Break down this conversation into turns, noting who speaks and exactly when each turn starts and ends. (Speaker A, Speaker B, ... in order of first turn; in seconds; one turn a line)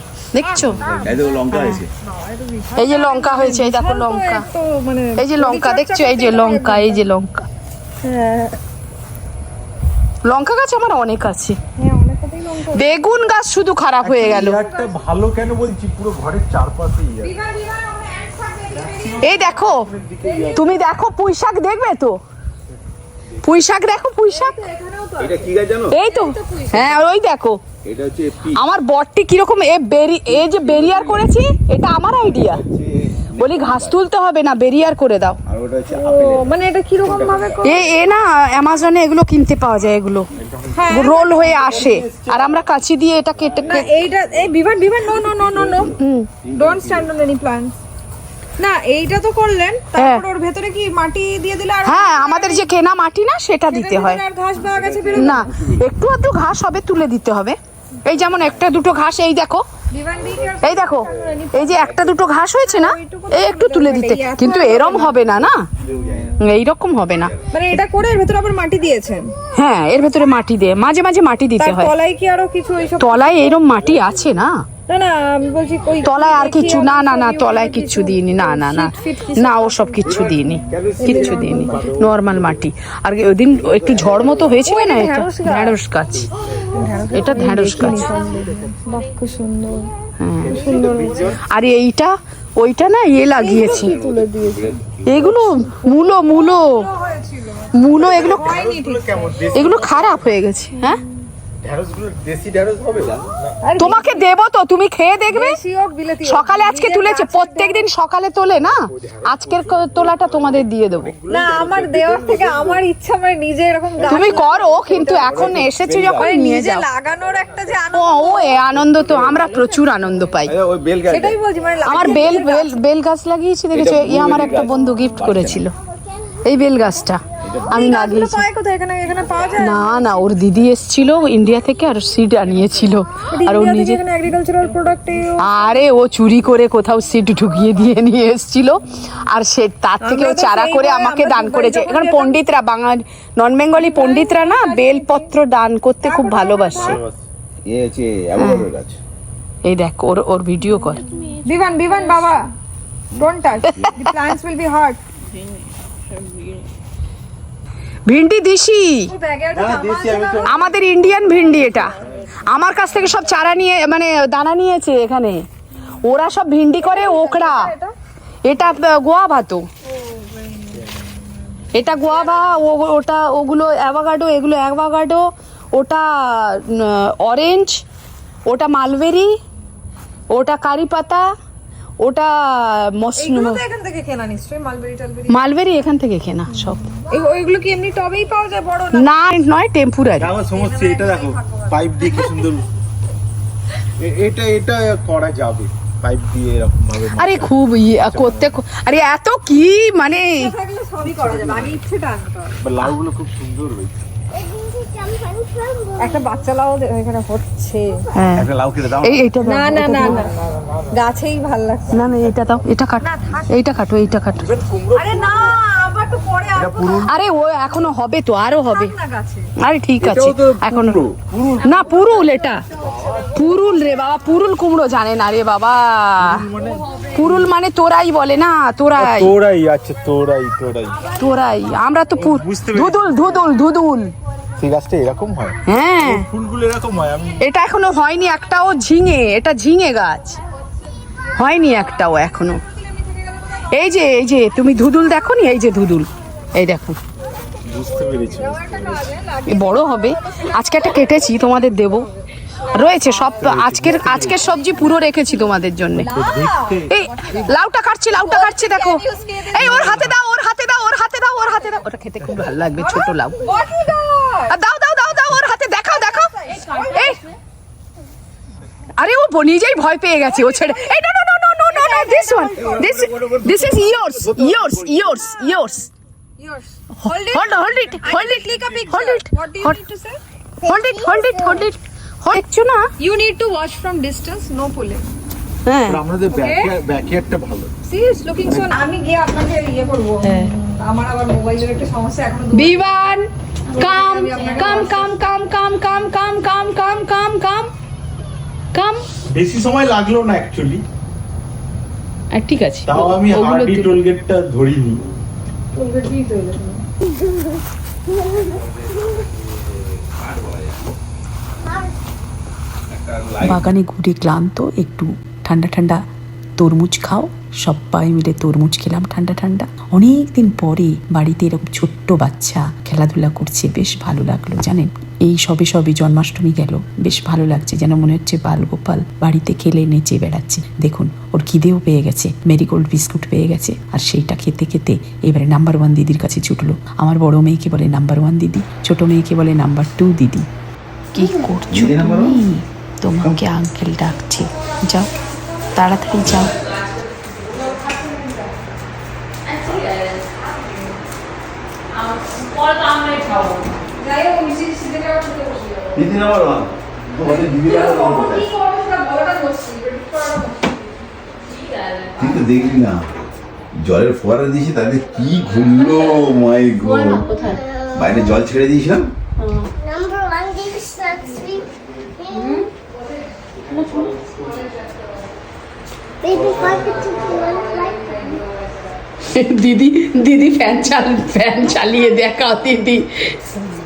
Speaker A: 0.3-0.8
Speaker B: 0.3-7.0
Speaker C: 0.6-1.9
Speaker A: 1.5-1.8
Speaker A: 2.8-4.5
Speaker A: 5.2-7.4
Speaker B: 8.0-8.6
Speaker A: 10.2-11.6
Speaker B: 11.8-13.0
Speaker A: 12.7-14.6
Speaker D: 14.0-17.3
Speaker B: 14.2-15.0
Speaker B: 17.2-19.6
Speaker D: 18.7-20.8
Speaker A: 19.2-19.9
Speaker B: 20.2-21.0
Speaker A: 20.5-22.1
Speaker A: 23.4-24.6
Speaker B: 24.3-26.9
Speaker C: 25.2-26.0
Speaker A: 25.9-27.6
Speaker C: 27.8-28.6
Speaker A: 28.6-32.6
Speaker C: 30.3-31.3
Speaker C: 32.0-34.0
Speaker A: 33.4-35.4
Speaker C: 35.4-36.5
Speaker B: 35.9-37.9
Speaker C: 37.0-37.9
Speaker A: 37.6-40.3
Speaker D: 40.4-42.6
Speaker B: 40.7-41.6
Speaker A: 40.9-44.0
Speaker B: 43.6-46.0
Speaker C: 45.5-45.9
Speaker A: 45.9-46.4
Speaker B: 46.5-47.7
Speaker C: 46.5-47.1
Speaker B: 48.6-52.7
Speaker A: 50.0-50.2
Speaker A: 51.8-54.2
Speaker B: 53.7-55.6
Speaker C: 54.6-55.8
Speaker A: 55.1-59.6
Speaker C: 58.2-58.9
Speaker B: 59.9-65.3
Speaker C: 60.2-62.1
Speaker A: 60.6-65.6
Speaker C: 65.8-66.4
Speaker A: 66.4-67.3
Speaker B: 67.5-69.3
Speaker A: 69.5-71.9
Speaker B: 71.6-73.4
Speaker A: 73.0-74.5
Speaker C: 73.8-74.2
Speaker E: 74.1-74.4
Speaker B: 74.9-81.9
Speaker A: 76.0-86.3
Speaker D: 80.0-80.6
Speaker C: 80.0-82.7
Speaker D: 81.1-82.2
Speaker C: 83.6-84.7
Speaker B: 84.6-85.8
Speaker D: 86.7-88.5
Speaker B: 86.7-89.9
Speaker A: 87.1-88.2
Speaker A: 90.2-90.6
Speaker D: 90.4-91.5
Speaker B: 90.5-91.4
Speaker A: 91.4-94.0
Speaker B: 93.3-99.8
Speaker C: 93.5-95.3
Speaker A: 95.0-96.9
Speaker A: 97.7-98.5
Speaker D: 97.9-100.3
Speaker A: 99.5-101.0
Speaker D: 101.6-103.8
Speaker C: 103.0-103.2
Speaker B: 103.6-104.3
Speaker A: 103.8-105.6
Speaker B: 105.3-107.8
Speaker A: 106.2-111.1
Speaker D: 108.6-112.8
Speaker B: 111.3-115.6
Speaker D: 114.0-115.6
Speaker A: 114.1-116.8
Speaker C: 115.3-116.4
Speaker B: 116.1-119.8
Speaker A: 117.9-120.5
Speaker C: 120.5-121.4
Speaker B: 121.1-122.7
Speaker A: 121.8-125.7
Speaker C: 121.9-122.2
Speaker C: 123.7-125.6
Speaker A: 126.4-128.4
Speaker C: 127.4-127.8
Speaker B: 127.7-130.2
Speaker A: 129.6-134.0
Speaker B: 133.3-135.6
Speaker A: 135.4-147.0
Speaker B: 140.0-142.4
Speaker B: 143.7-145.3
Speaker B: 146.0-147.0
Speaker D: 146.7-147.2
Speaker C: 147.6-149.0
Speaker A: 148.4-148.7
Speaker A: 149.6-151.1
Speaker B: 151.3-152.4
Speaker B: 153.1-155.0
Speaker F: 156.1-156.6
Speaker A: 158.1-159.1
Speaker B: 159.1-162.0
Speaker D: 159.5-160.6
Speaker A: 160.5-161.9
Speaker A: 162.4-165.4
Speaker A: 166.0-167.7
Speaker B: 166.8-167.9
Speaker A: 168.4-169.7
Speaker B: 169.9-171.0
Speaker B: 171.6-172.0
Speaker A: 171.7-177.8
Speaker A: 178.5-179.3
Speaker A: 180.3-181.3
Speaker A: 182.0-183.6
Speaker B: 183.2-185.4
Speaker A: 185.3-186.8
Speaker B: 186.5-189.1
Speaker A: 188.9-190.2
Speaker D: 190.2-192.7
Speaker B: 190.4-192.4
Speaker D: 194.0-198.5
Speaker A: 197.2-200.5
Speaker B: 200.2-202.6
Speaker D: 201.0-201.8
Speaker D: 202.6-204.0
Speaker F: 205.2-205.8
Speaker B: 205.9-208.0
Speaker A: 208.2-208.5
Speaker D: 208.3-209.3
Speaker A: 209.0-210.2
Speaker B: 209.4-210.4
Speaker D: 210.2-210.9
Speaker B: 210.9-212.1
Speaker A: 211.9-214.5
Speaker D: 212.1-212.6
Speaker B: 213.0-213.6
Speaker D: 214.4-215.5
Speaker B: 214.9-217.1
Speaker D: 216.5-217.1
Speaker A: 217.0-218.9
Speaker B: 218.7-219.5
Speaker A: 219.6-221.1
Speaker D: 220.0-221.8
Speaker A: 221.6-222.6
Speaker B: 221.7-223.6
Speaker D: 223.0-223.3
Speaker A: 223.3-226.4
Speaker D: 226.2-227.5
Speaker B: 226.6-227.3
Speaker A: 227.1-229.3
Speaker D: 229.0-231.1
Speaker A: 231.2-234.1
Speaker D: 232.2-233.3
Speaker D: 234.6-237.4
Speaker A: 235.7-236.2
Speaker A: 237.4-240.4
Speaker A: 241.3-242.6
Speaker B: 241.7-244.1
Speaker A: 243.7-247.0
Speaker D: 247.6-249.1
Speaker B: 248.2-253.4
Speaker A: 249.5-252.1
Speaker A: 252.7-256.1
Speaker D: 253.3-255.0
Speaker E: 253.7-254.2
Speaker B: 254.2-255.1
Speaker B: 255.9-257.5
Speaker D: 256.1-257.5
Speaker A: 256.9-263.6
Speaker B: 258.1-260.0
Speaker D: 259.5-260.1
Speaker E: 262.5-263.3
Speaker B: 263.4-264.6
Speaker A: 264.5-267.2
Speaker B: 265.9-267.1
Speaker A: 269.0-275.9
Speaker B: 271.7-273.0
Speaker C: 272.6-275.1
Speaker B: 275.2-275.5
Speaker B: 276.4-280.2
Speaker A: 277.0-279.8
Speaker D: 278.5-278.9
Speaker A: 280.6-282.8
Speaker E: 280.9-281.6
Speaker B: 283.0-285.0
Speaker A: 285.7-286.0
Speaker D: 285.9-287.7
Speaker B: 286.3-286.7
Speaker B: 287.9-292.8
Speaker A: 290.2-290.5
Speaker A: 292.5-297.7
Speaker B: 293.7-295.1
Speaker A: 298.8-299.0
Speaker D: 299.2-300.8
Speaker E: 302.3-303.3
Speaker A: 302.9-304.0
Speaker D: 302.9-305.0
Speaker B: 305.7-306.8
Speaker C: 308.6-309.1
Speaker C: 310.0-310.9
Speaker C: 312.9-313.7
Speaker E: 313.4-316.0
Speaker E: 316.6-340.5
Speaker A: 341.1-341.8
Speaker E: 341.1-345.1
Speaker C: 341.7-342.4
Speaker E: 345.8-346.4
Speaker A: 345.8-346.5
Speaker B: 347.4-348.5
Speaker A: 352.7-353.5
Speaker B: 353.9-356.1
Speaker C: 355.9-358.5
Speaker B: 357.2-360.9
Speaker C: 362.2-363.1
Speaker C: 363.7-367.3
Speaker A: 367.2-367.6
Speaker C: 367.9-369.1
Speaker F: 370.2-371.3
Speaker D: 373.8-374.5
Speaker B: 374.4-375.0
Speaker D: 376.3-377.4
Speaker B: 376.4-378.6
Speaker F: 377.3-377.8
Speaker A: 379.3-383.4